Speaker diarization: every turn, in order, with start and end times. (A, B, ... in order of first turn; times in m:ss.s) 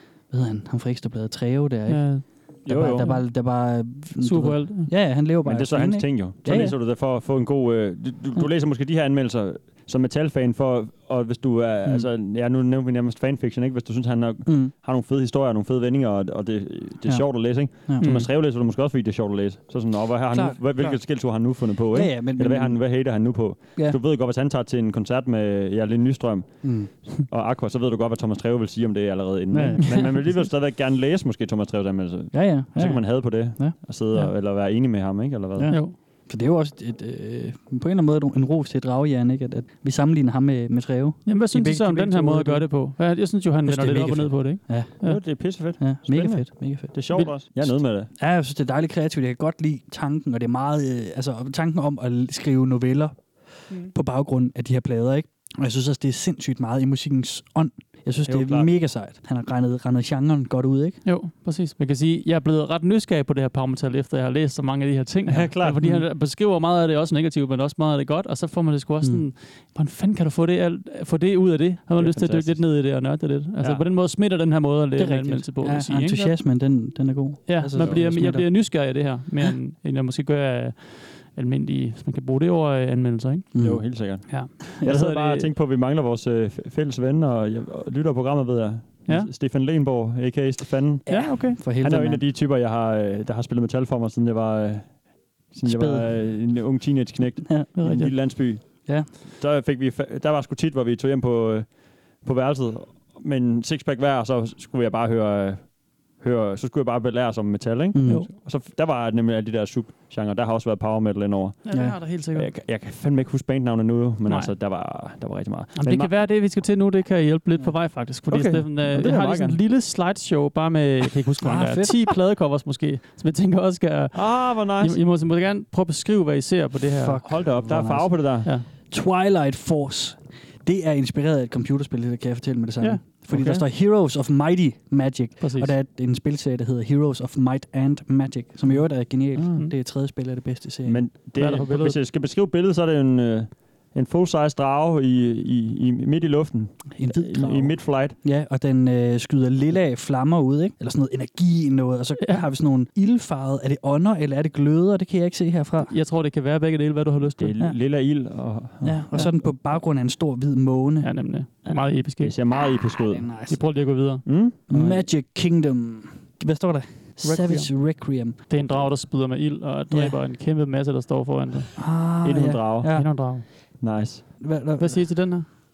0:00.3-0:06.8 A
0:01.9-0:03.3 B
0:02.6-0:03.1 C
0:04.2-0:04.9 B
0:05.4-0:35.8 C
0:14.4-0:14.7 A
0:17.0-0:18.1 A
0:18.0-0:18.3 B
0:20.3-0:24.0 A
0:26.6-0:26.9 A
0:29.5-0:30.3 A
0:32.3-0:33.8 A
0:35.6-0:42.7 A
0:35.7-0:35.9 B
0:41.3-0:45.2 B
0:43.6-0:45.0 A
0:45.0-0:48.1 C
0:45.6-1:01.0 A
0:58.2-0:58.7 C
1:01.0-1:16.4 B
1:05.3-1:05.8 C
1:12.0-1:12.7 C
1:15.0-1:18.6 A
1:17.5-1:23.5 B
1:17.8-1:18.0 C
1:23.5-1:24.4 A
1:23.6-1:56.1 C
1:24.3-1:25.5 B
1:29.0-1:29.3 B
1:31.1-1:32.2 A
1:31.1-1:31.6 B
1:35.6-1:36.2 A
1:37.7-1:38.1 B
1:47.9-1:48.3 A
1:51.6-1:52.5 B
1:51.7-1:52.0 A
1:54.2-1:54.5 B
1:55.8-2:07.2 B
1:58.3-1:59.6 C
2:01.4-2:02.0 A
2:04.1-2:05.0 C
2:06.9-2:21.0 A
2:07.2-2:08.5 C
2:12.8-2:13.1 B
2:13.3-2:13.6 C
2:15.4-2:15.7 B
2:20.8-2:28.2 C
2:21.3-2:22.0 B
2:26.9-2:35.9 A
2:35.9-2:37.5 B
2:37.4-2:39.0 C
2:38.8-2:41.1 A
2:41.0-2:42.3 B
2:41.7-2:43.3 C
2:43.0-2:43.6 A
2:43.5-2:44.3 B
2:44.2-2:45.0 C
2:44.7-2:48.4 A
2:47.2-2:47.9 B
2:48.5-2:51.7 B
2:48.6-2:48.9 C
2:49.9-2:50.2 A
2:51.8-2:53.7 A
2:52.2-2:54.3 C
2:52.9-2:53.4 B
2:54.4-2:55.1 A
2:54.8-2:55.5 B